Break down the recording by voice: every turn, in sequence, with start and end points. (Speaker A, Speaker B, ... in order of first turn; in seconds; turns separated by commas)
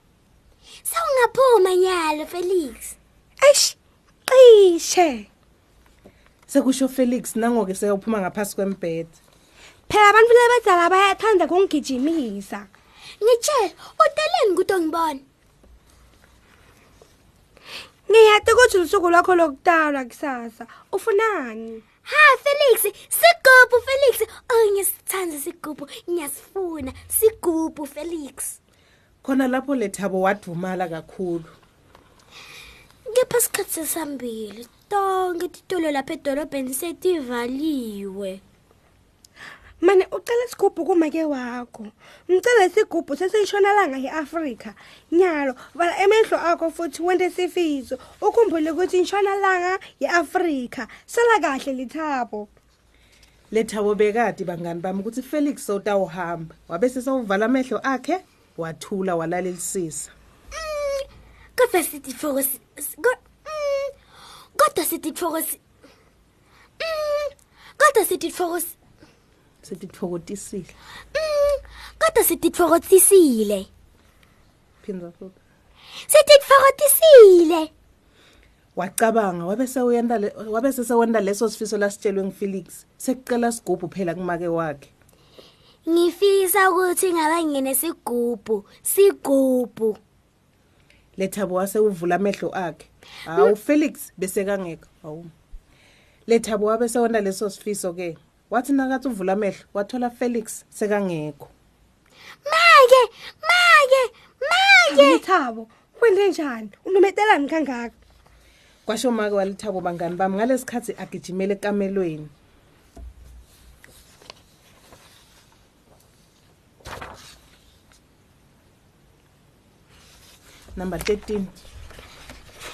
Speaker A: 0.9-3.0, Speaker B: 3.4-3.8, Speaker B: 4.3-5.3, Speaker C: 6.5-9.2, Speaker B: 9.9-12.7, Speaker A: 13.2-15.2, Speaker B: 18.1-21.8, Speaker A: 22.1-28.6, Speaker C: 29.2-31.5, Speaker A: 33.1-38.4, Speaker B: 39.8-52.5, Speaker C: 53.5-60.1, Speaker A: 60.5-61.0, Speaker A: 61.6-63.9, Speaker A: 64.6-65.6, Speaker A: 66.8-68.7, Speaker C: 69.6-70.7, Speaker A: 71.2-73.7, Speaker C: 74.8-75.4, Speaker A: 76.1-77.7, Speaker C: 78.8-84.9, Speaker A: 85.9-90.0, Speaker C: 91.2-95.3, Speaker C: 96.3-101.5, Speaker A: 102.5-105.2, Speaker B: 104.9-107.9, Speaker C: 108.9-112.3, Speaker C: 120.8-121.5